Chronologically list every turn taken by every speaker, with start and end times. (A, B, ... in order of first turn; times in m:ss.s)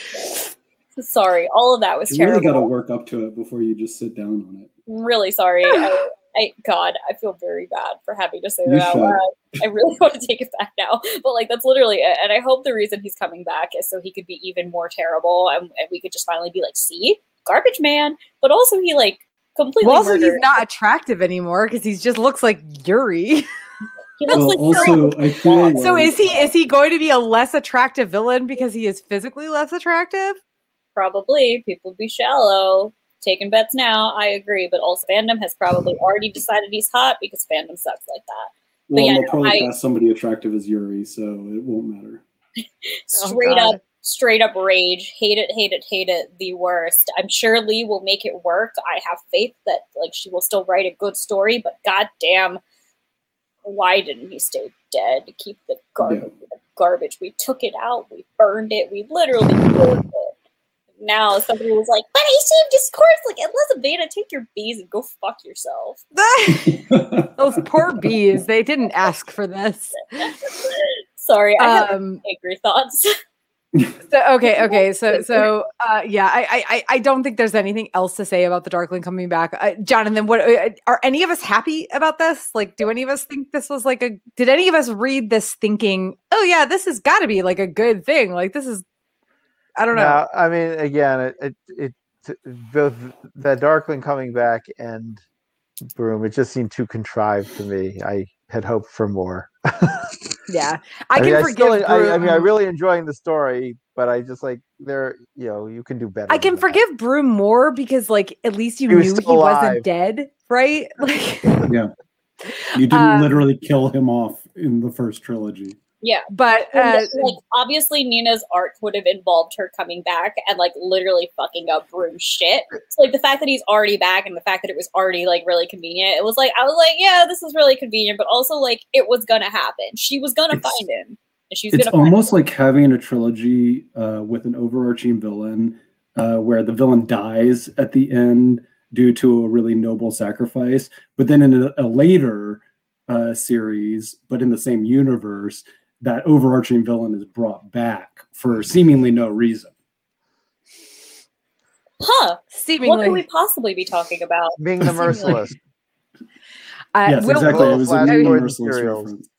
0:01.0-0:02.7 A
0:02.1-0:04.7 B
0:04.9-0:20.5 A
0:08.7-0:09.2 B
0:19.8-0:23.5 C
0:24.2-0:26.0 A
0:24.3-0:25.1 C
0:24.3-0:26.2 B
0:25.7-0:30.4 C
0:31.0-0:39.7 A
0:38.9-0:42.2 B
0:43.0-0:52.6 A
0:43.2-0:43.8 C
0:53.6-1:00.3 A
0:56.0-0:56.3 B
1:01.0-1:06.0 A
1:06.2-1:06.8 C
1:06.7-1:07.3 B
1:07.4-1:10.3 C
1:10.2-1:13.2 A
1:11.6-1:12.2 C
1:14.1-1:28.8 C
1:14.7-1:15.4 A
1:29.8-1:30.2 C
1:29.9-1:35.2 D
1:35.9-1:40.1 D
1:40.5-1:42.5 C
1:41.2-1:46.8 D
1:46.3-1:51.7 C
1:48.9-1:49.8 D
1:51.7-1:51.9 B
1:52.4-1:53.4 C
1:52.7-1:55.8 B
1:56.0-2:12.4 A
1:56.3-1:57.4 C
2:10.5-2:10.8 B
2:11.7-2:29.7 B
2:32.0-2:34.6 A
2:32.5-2:33.2 C
2:34.6-2:35.6 D
2:34.8-2:35.5 B
2:37.0-2:38.5 C
2:37.0-2:39.3 B
2:37.2-2:39.1 D